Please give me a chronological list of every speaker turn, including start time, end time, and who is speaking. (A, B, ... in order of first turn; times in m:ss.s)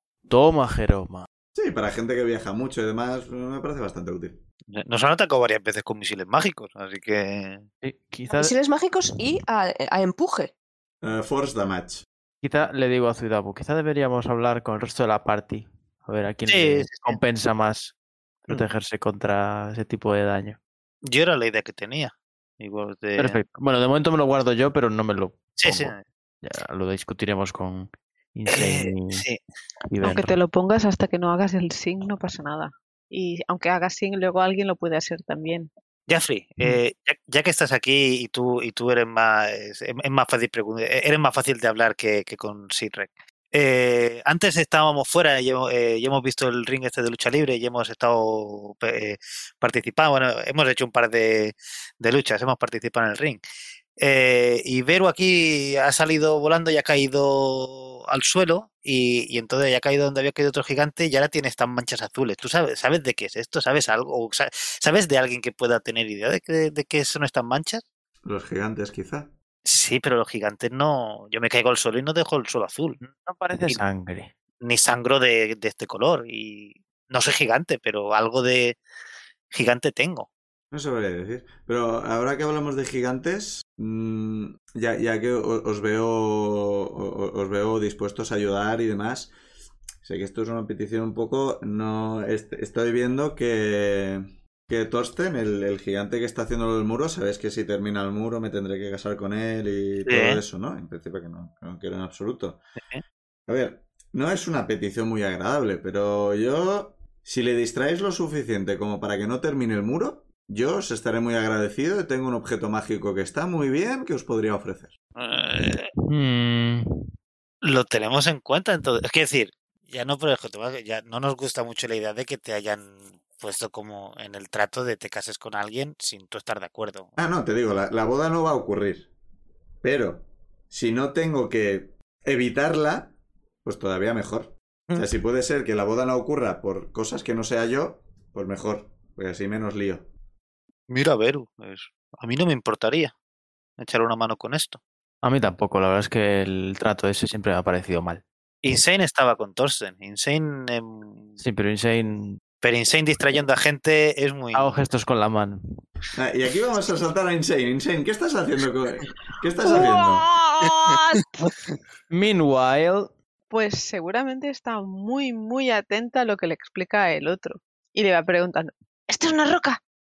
0:00.3-0:01.3 A
0:01.6-0:04.4 B
0:04.7-0:07.7 C
0:07.8-0:08.5 A
0:08.3-0:10.5 D
0:11.0-0:12.0 B
0:12.4-0:18.0 A
0:16.5-0:17.2 C
0:18.5-0:20.6 A
0:21.0-0:23.4 C
0:23.2-0:29.2 A
0:25.6-0:26.0 C
0:28.5-0:29.4 C
0:29.9-0:30.3 A
0:30.0-0:35.7 E
0:36.1-0:53.4 C
0:54.0-1:07.8 C
1:08.2-1:09.3 B
1:09.6-1:13.0 C
1:13.0-1:14.3 A
1:14.6-1:18.8 C
1:19.5-1:20.3 C
1:20.7-1:29.3 B
1:30.0-1:42.6 B
1:40.1-1:40.4 C
1:43.5-1:55.0 B
1:55.2-1:55.9 C
1:56.1-1:56.9 A
1:57.6-2:07.2 C
2:07.2-2:09.1 B
2:09.8-2:13.1 B
2:13.6-2:20.1 B
2:20.9-2:23.1 C
2:23.8-2:24.8 C
2:25.2-2:28.2 A
2:28.6-2:31.4 C
2:31.4-2:32.4 A
2:32.6-2:34.8 C
2:34.5-2:35.6 A
2:36.2-2:40.3 B
2:39.6-2:41.3 E
2:40.6-2:41.7 C
2:42.1-2:43.1 A
2:43.5-2:49.8 E